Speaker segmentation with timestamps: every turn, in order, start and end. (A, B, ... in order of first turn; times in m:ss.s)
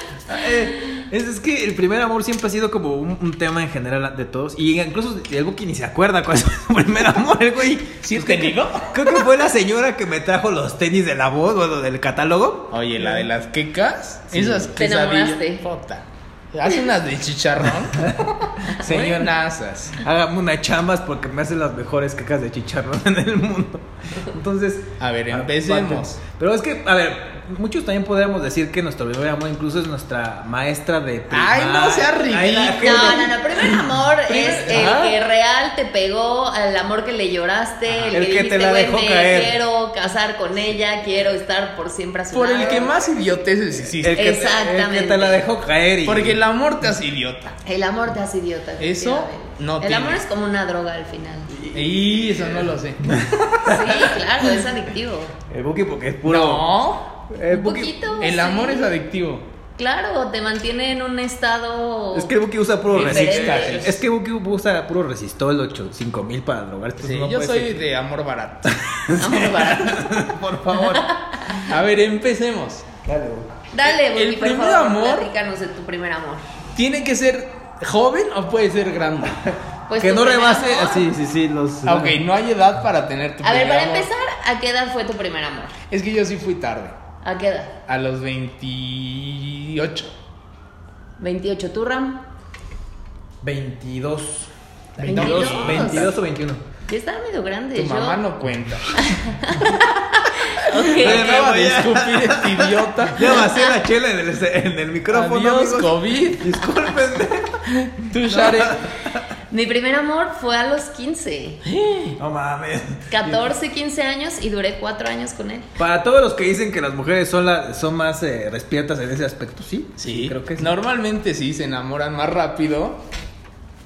0:00.3-0:12.7 A
0:08.0-0:09.1 B
0:12.7-0:20.0 B
0:14.3-0:14.7 A
0:14.7-0:15.6 C
0:18.0-0:19.3 A
0:20.0-0:33.8 A
0:25.0-0:26.2 B
0:31.3-0:33.4 B
0:32.8-0:42.9 C
0:34.3-0:35.0 B
0:34.3-0:35.2 A
0:37.9-0:38.2 B
0:38.1-0:39.6 A
0:42.3-0:44.2 B
0:44.0-0:46.4 A
0:44.1-0:45.4 C
0:46.0-0:47.6 B
0:47.6-0:51.5 C
0:48.8-0:50.2 B
0:51.5-0:54.6 A
0:51.7-0:53.1 B
0:53.6-0:55.3 C
0:55.5-0:56.7 A
0:56.2-0:57.2 B
0:57.3-0:57.9 A
0:57.5-0:59.0 C
0:58.2-0:59.5 B
0:59.8-1:02.3 C
1:02.1-1:07.8 A
1:02.9-1:04.0 B
1:02.9-1:03.8 C
1:07.0-1:08.8 B
1:08.7-1:11.6 A
1:09.2-1:10.1 C
1:10.7-1:11.6 C
1:11.6-1:12.8 B
1:13.0-1:13.5 A
1:13.7-1:16.4 C
1:14.1-1:15.3 B
1:16.7-1:19.4 B
1:19.4-1:22.2 A
1:19.9-1:21.1 C
1:21.8-1:24.1 B
1:23.4-1:25.7 C
1:25.9-1:26.9 B
1:27.2-1:27.8 C
1:27.9-1:30.1 B
1:31.2-1:32.2 C
1:33.4-1:36.6 A
1:35.0-1:36.1 B
1:35.0-1:36.1 C
1:36.9-1:38.2 C
1:37.8-1:39.0 B
1:39.0-1:41.5 C
1:40.9-1:47.7 A
1:40.9-1:43.4 B
1:45.1-1:46.6 B
1:47.8-1:48.8 B
1:48.2-1:49.2 A
1:49.5-1:51.6 C
1:51.6-1:52.2 B
1:52.2-1:53.5 A
1:53.1-1:55.7 C
1:55.8-2:00.8 A
2:00.0-2:03.0 B